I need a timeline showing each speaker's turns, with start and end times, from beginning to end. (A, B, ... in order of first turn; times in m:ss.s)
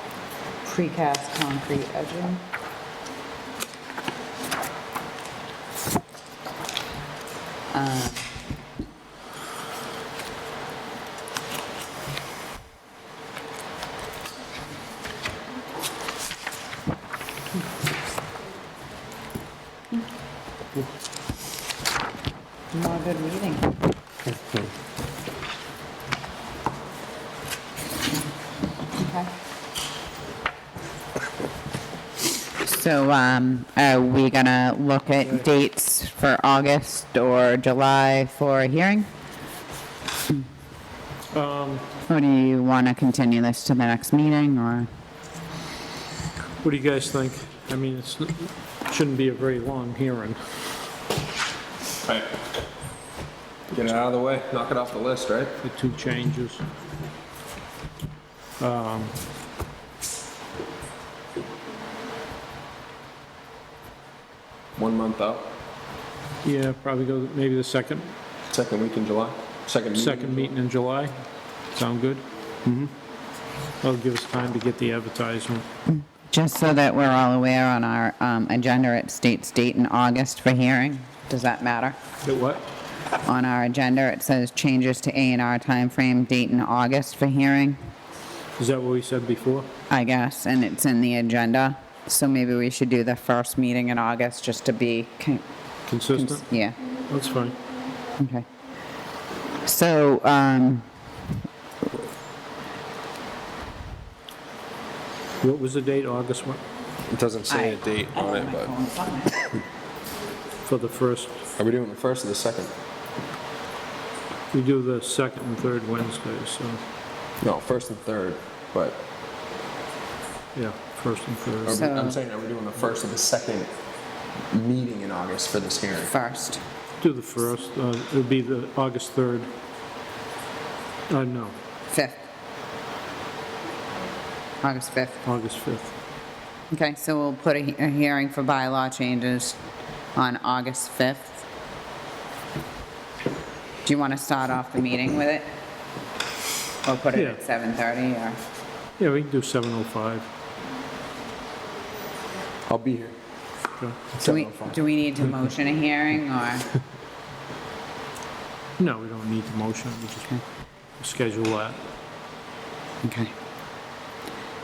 0:00.6-0:02.4 A
0:07.7-0:08.3 A
0:22.7-0:23.7 A
0:29.0-0:29.3 A
0:32.6-0:39.1 A
0:41.3-0:41.8 B
0:42.1-0:44.9 A
0:46.6-0:50.4 B
0:53.7-0:55.6 C
0:55.6-0:56.6 B
0:58.6-0:59.2 B
1:04.8-1:05.5 C
1:06.4-1:08.1 B
1:08.5-1:10.5 C
1:09.9-1:11.1 B
1:11.7-1:12.2 B
1:13.8-1:15.7 B
1:15.9-1:22.0 A
1:22.2-1:22.6 B
1:23.2-1:27.8 A
1:28.6-1:29.7 B
1:29.9-1:35.4 A
1:35.9-1:36.4 B
1:36.1-1:36.8 A
1:37.1-1:37.6 B
1:38.2-1:38.4 A
1:39.6-1:40.8 A
1:45.4-1:46.6 B
1:47.1-1:48.7 C
1:47.5-1:49.5 A
1:50.6-1:51.4 B
1:51.6-1:52.7 C
1:54.5-1:56.8 B
1:57.4-1:59.0 C
2:00.5-2:01.8 B
2:01.6-2:03.7 C
2:01.7-2:02.2 A
2:04.5-2:06.1 C
2:06.1-2:06.6 A
2:07.0-2:09.5 B
2:11.1-2:11.5 B
2:11.9-2:12.2 A
2:14.6-2:15.2 A
2:15.2-2:15.9 B
2:16.7-2:19.6 A
2:20.1-2:21.4 A
2:23.8-2:25.5 A
2:26.8-2:28.4 A
2:29.0-2:30.3 B
2:32.7-2:33.1 C
2:34.1-2:34.8 C
2:34.2-2:36.6 A
2:38.8-2:40.3 B
2:41.0-2:41.8 B
2:43.0-2:43.3 A